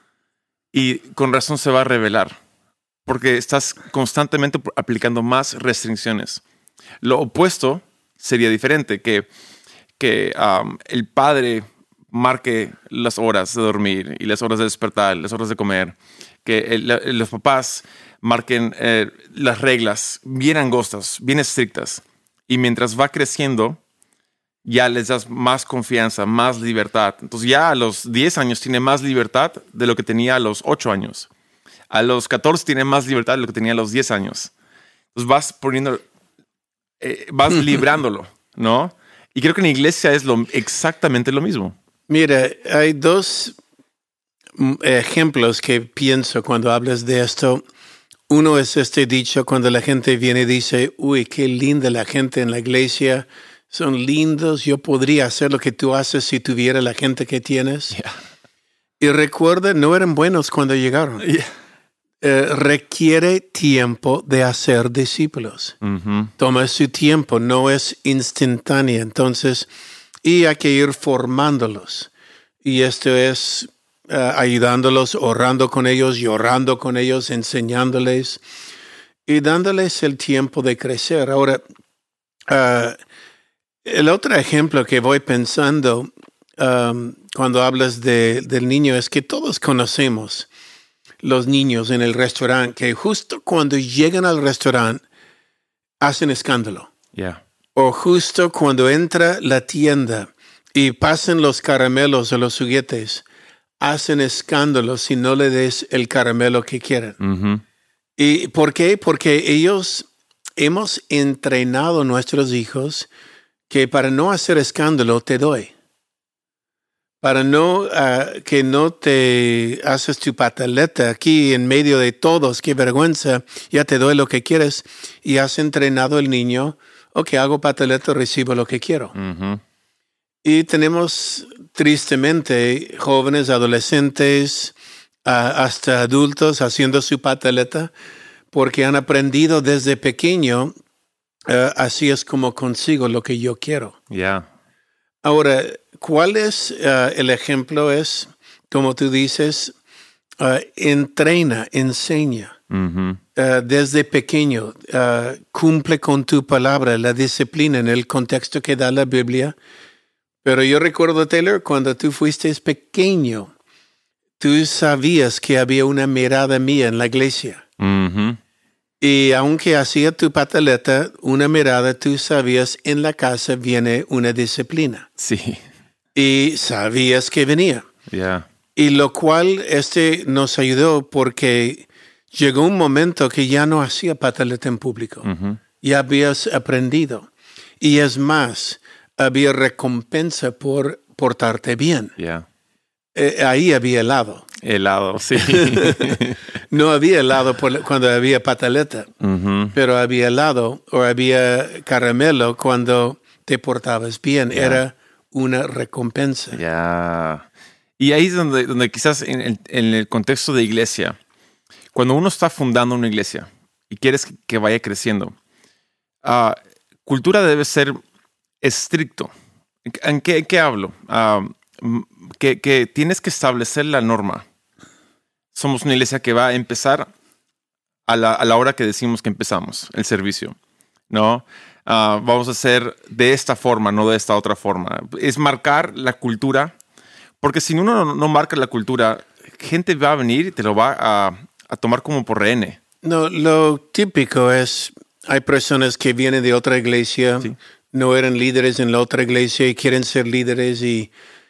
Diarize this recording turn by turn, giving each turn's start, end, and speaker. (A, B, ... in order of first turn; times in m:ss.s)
0:00.7-0:02.3 A
0:03.1-0:06.4 A
0:07.0-0:09.3 A
0:10.0-0:23.8 A
0:24.6-0:31.3 A
0:31.9-0:34.5 A
0:35.1-0:36.0 A
0:37.0-0:41.7 A
0:42.1-0:43.6 B
0:44.6-0:47.6 B
0:48.3-0:58.0 B
0:59.0-1:01.2 B
1:01.2-1:01.5 A
1:02.2-1:05.8 B
1:05.8-1:06.3 A
1:06.4-1:09.7 B
1:10.2-1:12.1 B
1:12.6-1:18.4 B
1:19.3-1:21.6 B
1:22.5-1:23.0 B
1:23.8-1:30.5 B
1:31.2-1:35.0 B
1:36.0-1:36.9 B
1:37.1-1:37.4 A
1:37.8-1:43.2 B
1:43.8-1:47.2 B
1:47.2-1:47.6 A
1:48.2-1:53.1 B
1:53.7-1:55.7 B
1:57.2-2:09.1 B
2:09.2-2:09.6 A
2:10.4-2:17.9 B
2:18.5-2:20.7 B
2:21.5-2:24.0 B
2:24.1-2:24.5 A
2:25.2-2:29.8 B
2:30.4-2:32.6 B
2:32.7-2:33.2 A
2:33.4-2:39.6 B
2:40.4-2:43.5 B
2:44.4-2:47.6 B
2:47.8-2:48.4 A
2:49.0-2:55.1 B
2:55.2-2:55.6 A
2:56.2-2:57.9 B
2:58.1-2:58.5 A
2:58.8-3:05.3 B
3:05.2-3:05.6 A
3:05.8-3:07.3 B
3:07.8-3:12.2 B
3:12.2-3:12.5 A
3:13.2-3:14.5 B
3:14.6-3:16.4 A
3:15.4-3:16.2 B
3:16.7-3:19.1 B
3:19.2-3:19.8 A
3:19.7-3:26.6 B
3:24.5-3:24.8 A
3:26.5-3:27.5 A
3:28.0-3:31.2 A
3:31.9-3:35.4 A
3:36.2-3:38.0 A
3:38.6-3:39.3 A
3:39.9-3:44.4 A
3:45.6-3:47.1 A
3:48.1-3:50.6 A
3:51.1-3:56.7 A
3:57.4-4:02.8 A
4:03.0-4:11.1 B